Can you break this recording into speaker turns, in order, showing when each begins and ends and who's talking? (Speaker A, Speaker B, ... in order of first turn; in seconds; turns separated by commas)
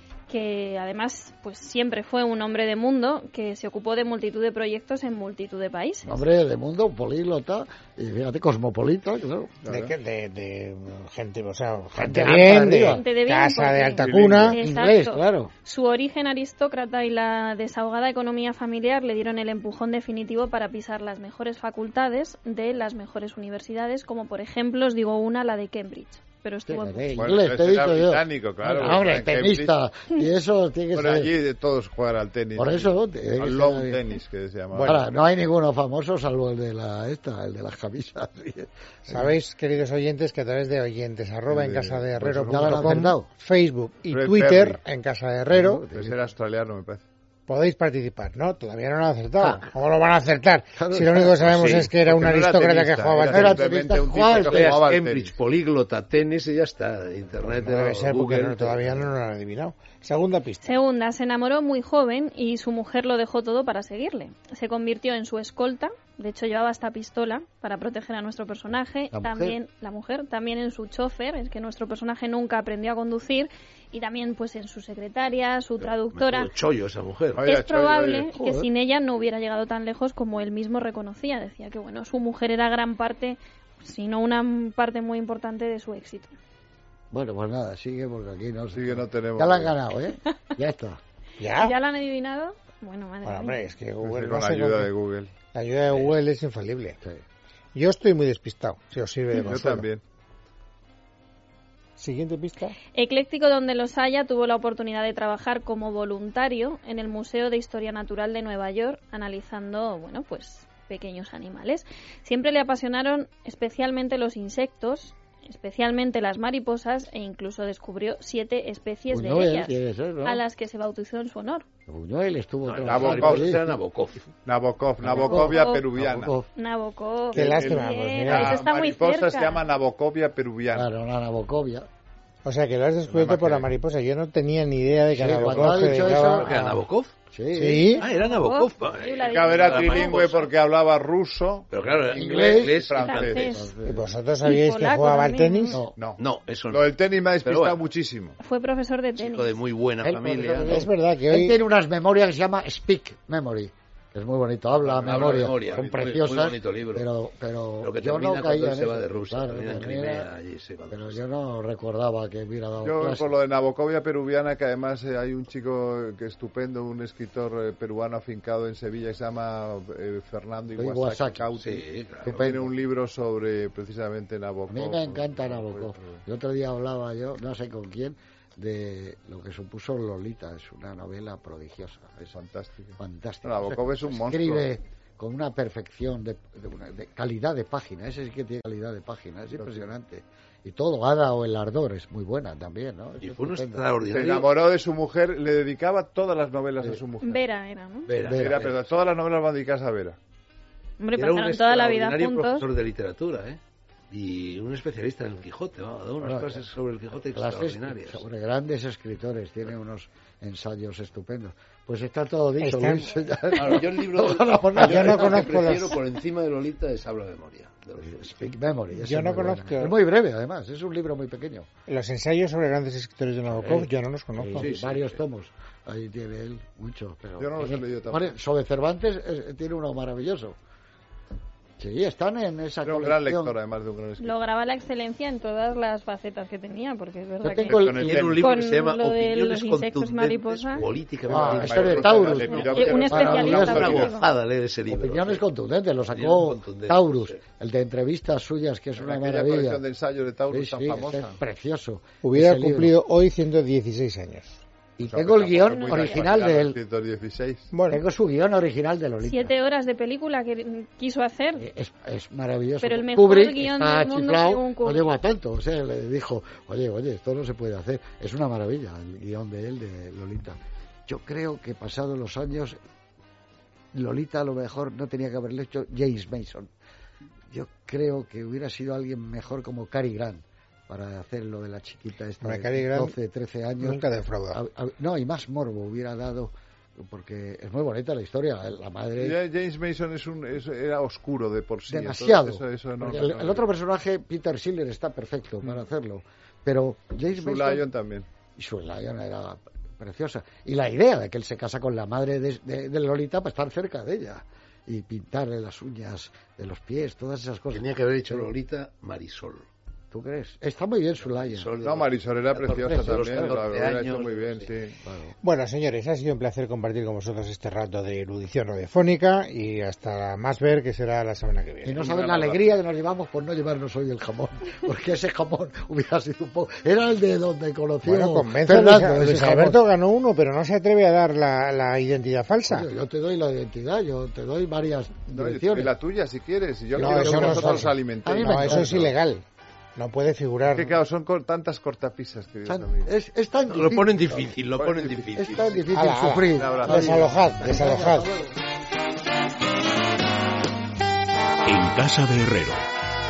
Speaker A: 0.3-6.2, Speaker B: 6.0-9.6, Speaker C: 9.6-9.9, Speaker D: 9.7-14.6, Speaker B: 12.0-13.1, Speaker A: 12.9-27.2, Speaker C: 14.0-14.6, Speaker B: 14.6-15.5, Speaker B: 26.7-31.4, Speaker C: 27.2-29.8, Speaker C: 30.9-35.0, Speaker B: 32.5-34.1, Speaker D: 34.7-35.0, Speaker B: 34.9-39.4, Speaker D: 39.1-45.8, Speaker C: 41.5-43.0, Speaker B: 42.5-43.3, Speaker C: 44.1-44.8, Speaker B: 45.5-46.3, Speaker C: 45.9-47.0, Speaker D: 47.5-53.7, Speaker E: 49.4-49.7, Speaker B: 50.8-51.9, Speaker E: 51.5-51.9, Speaker C: 52.0-55.4, Speaker B: 53.2-54.8, Speaker E: 54.5-59.1, Speaker D: 57.4-60.8, Speaker A: 60.6-76.5, Speaker B: 69.1-69.6, Speaker E: 75.8-77.5, Speaker C: 77.4-78.3, Speaker A: 77.5-86.3, Speaker B: 78.3-78.7, Speaker B: 87.1-91.0, Speaker C: 88.7-89.8, Speaker D: 91.4-91.8, Speaker A: 91.5-93.6, Speaker D: 93.2-94.9, Speaker C: 94.0-95.3, Speaker D: 95.5-97.0, Speaker D: 97.8-99.9, Speaker C: 99.4-100.0, Speaker D: 102.0-102.8, Speaker A: 102.9-121.7, Speaker B: 119.1-120.4, Speaker B: 121.9-123.8, Speaker E: 122.6-124.3, Speaker C: 122.8-123.6, Speaker C: 124.4-126.4, Speaker B: 125.0-126.5, Speaker A: 125.2-125.9, Speaker A: 126.5-129.7, Speaker D: 127.3-128.6, Speaker C: 127.3-130.9, Speaker B: 130.7-131.9, Speaker D: 132.4-136.7, Speaker C: 133.1-133.7, Speaker B: 135.1-137.9, Speaker E: 135.7-137.1, Speaker D: 137.5-138.1, Speaker A: 138.0-140.5, Speaker E: 138.0-140.4, Speaker C: 139.3-141.7, Speaker E: 141.7-143.5, Speaker B: 142.1-144.1, Speaker C: 142.7-143.5, Speaker A: 143.0-143.7, Speaker D: 143.8-145.8, Speaker A: 144.4-145.8, Speaker B: 145.7-146.0, Speaker C: 146.0-148.4, Speaker E: 146.2-147.8, Speaker A: 148.4-149.6, Speaker E: 149.2-150.8, Speaker B: 150.0-160.3, Speaker D: 150.7-151.6, Speaker E: 154.8-157.1, Speaker C: 155.0-156.1, Speaker E: 157.8-161.2, Speaker B: 160.9-163.3, Speaker C: 162.8-176.2, Speaker B: 170.8-171.5, Speaker E: 171.6-172.4, Speaker B: 172.2-172.8, Speaker B: 174.7-182.3, Speaker C: 182.2-184.7, Speaker B: 183.0-194.0, Speaker C: 189.5-189.9, Speaker E: 193.2-194.5, Speaker C: 194.0-197.4, Speaker A: 197.2-198.1, Speaker E: 198.1-198.8, Speaker C: 198.2-200.2, Speaker B: 198.2-198.7, Speaker A: 201.0-202.7, Speaker E: 201.1-203.6, Speaker E: 204.1-208.2, Speaker B: 206.2-206.7, Speaker B: 207.3-215.7, Speaker D: 212.6-213.2, Speaker E: 213.5-218.4, Speaker D: 214.8-216.0, Speaker B: 218.0-221.7, Speaker D: 218.9-220.0, Speaker D: 221.9-224.7, Speaker E: 223.6-223.9, Speaker B: 224.4-230.6, Speaker E: 224.5-225.2, Speaker C: 227.4-228.4, Speaker B: 231.8-233.6, Speaker C: 232.8-234.4, Speaker A: 234.2-240.9, Speaker B: 237.4-238.1, Speaker C: 237.7-238.5, Speaker E: 238.0-242.0, Speaker B: 241.3-244.1, Speaker C: 241.3-244.2, Speaker A: 242.5-244.3, Speaker E: 243.1-245.5, Speaker B: 244.9-249.8, Speaker E: 246.0-247.4, Speaker C: 249.0-251.4, Speaker B: 250.5-252.9, Speaker D: 252.2-254.6, Speaker B: 255.0-256.8, Speaker C: 255.1-257.7, Speaker A: 255.7-256.3, Speaker D: 257.7-258.0, Speaker B: 257.9-259.5, Speaker A: 259.2-261.6, Speaker B: 261.6-272.8, Speaker A: 262.8-265.1, Speaker B: 273.9-276.7, Speaker B: 277.5-289.4, Speaker D: 282.4-283.2, Speaker D: 283.8-284.6, Speaker C: 289.2-293.7, Speaker B: 291.9-297.9, Speaker C: 297.3-298.3, Speaker B: 298.6-308.5, Speaker E: 307.7-309.7, Speaker B: 310.1-311.8, Speaker E: 311.2-314.7, Speaker C: 311.8-315.0, Speaker B: 312.7-313.6, Speaker B: 315.0-315.4, Speaker D: 315.4-322.0, Speaker B: 321.9-329.8, Speaker C: 322.0-322.7, Speaker D: 328.0-332.9, Speaker B: 332.7-336.0, Speaker C: 335.3-339.1, Speaker B: 336.9-339.1, Speaker D: 337.0-339.4, Speaker D: 340.0-341.0, Speaker C: 340.7-343.1, Speaker B: 342.6-344.5, Speaker E: 343.7-345.8, Speaker C: 344.7-345.8, Speaker B: 345.3-348.6, Speaker D: 345.9-348.3, Speaker C: 346.6-347.3, Speaker E: 351.7-352.8